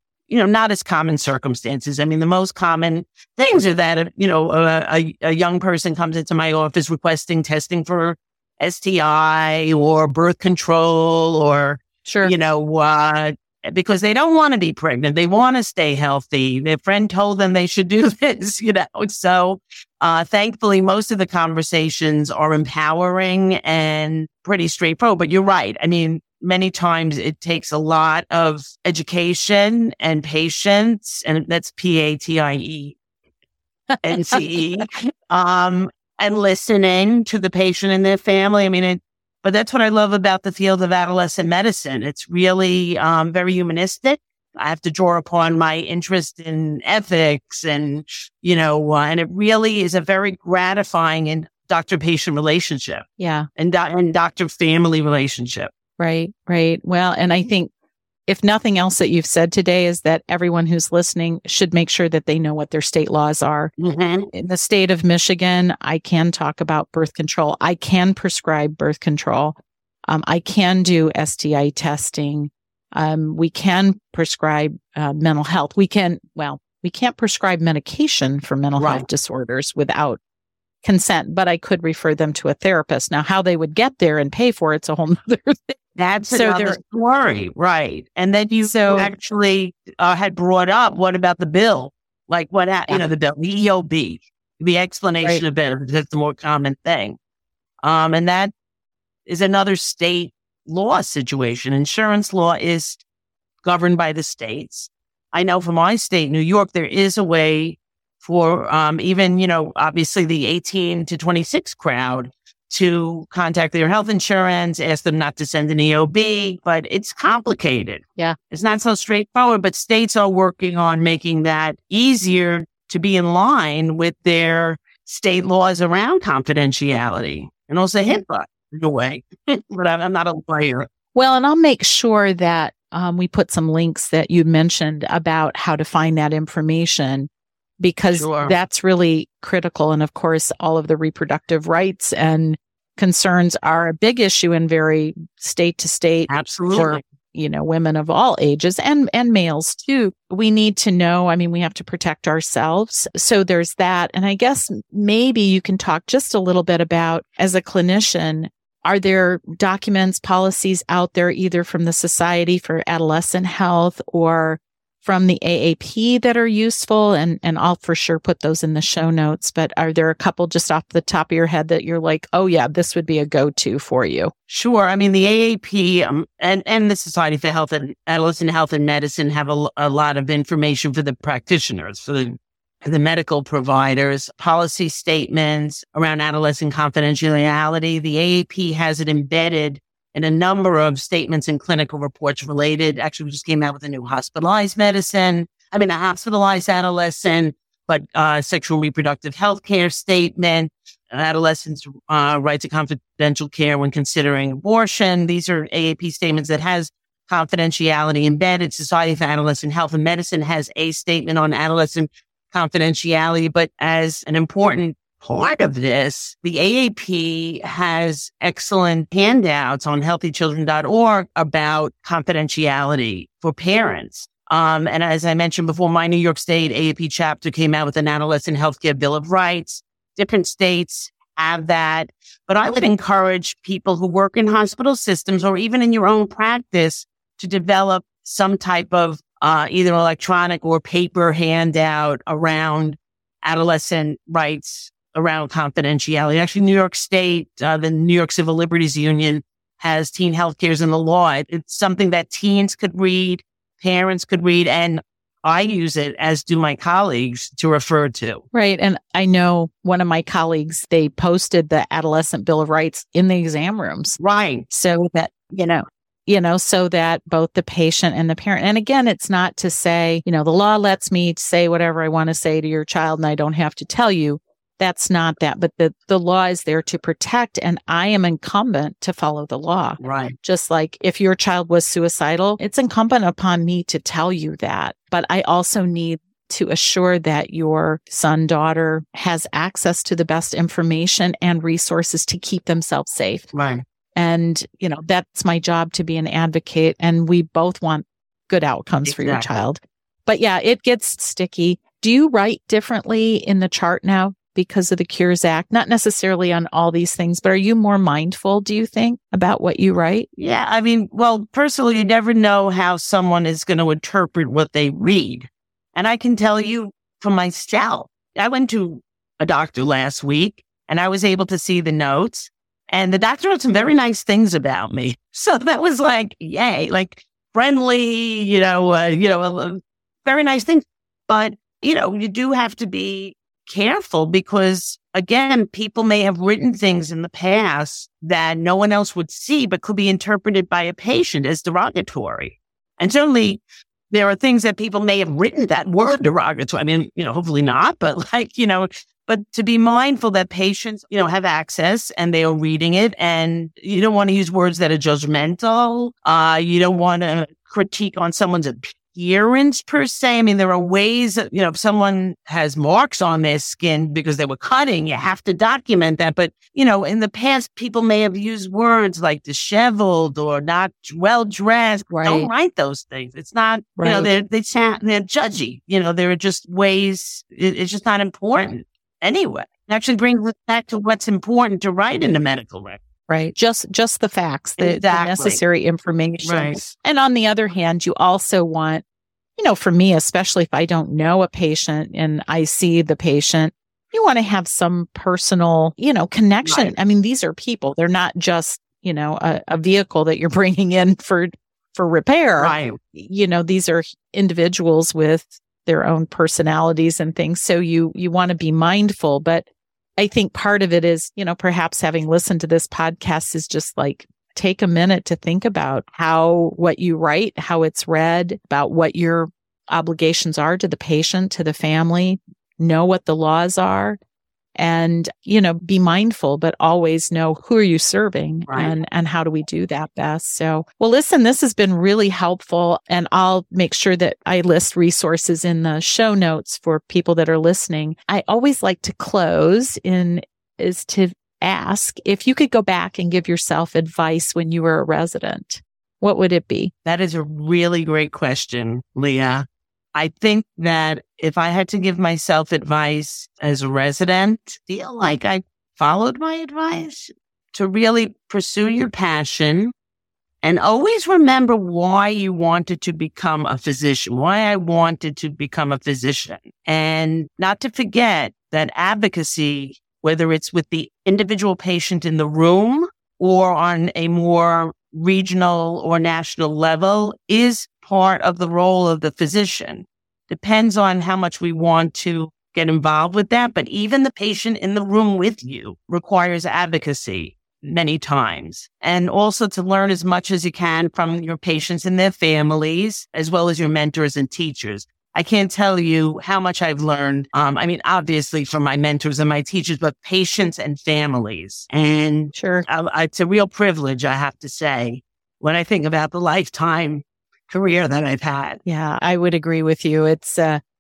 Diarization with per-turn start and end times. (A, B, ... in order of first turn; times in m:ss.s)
0:00.3-0:33.0 A
0:12.0-0:12.3 B
0:33.9-0:34.6 B
0:34.0-0:53.0 A
0:53.2-0:53.5 B
0:53.6-0:55.7 A
0:56.0-0:57.7 B
0:58.3-1:03.7 B
1:03.8-1:04.3 A
1:04.3-1:20.2 B
1:18.8-1:19.1 A
1:20.8-1:25.8 B
1:26.0-1:37.2 A
1:26.3-1:26.8 B
1:28.6-1:29.1 B
1:37.8-1:38.5 A
1:39.3-1:43.0 A
1:43.6-2:10.9 A
2:11.2-2:54.3 B
2:18.1-2:18.6 A
2:26.3-2:27.0 A
2:54.5-4:18.4 A
4:18.5-4:53.5 B
4:24.2-4:24.7 A
4:40.0-4:40.3 A
4:53.5-4:53.8 A
4:54.2-5:10.3 B
4:59.0-4:59.5 A
5:10.4-6:23.0 A
6:12.1-6:12.5 B
6:14.0-6:14.3 B
6:23.3-6:29.0 B
6:24.8-6:25.6 A
6:26.4-6:26.9 A
6:29.6-6:49.7 B
6:36.6-6:36.9 A
6:42.6-6:43.0 A
6:50.2-7:04.2 B
7:04.8-7:26.9 B
7:08.7-7:09.0 A
7:27.0-7:39.9 A
7:40.6-8:28.8 A
8:22.5-8:22.9 B
8:28.8-8:30.8 B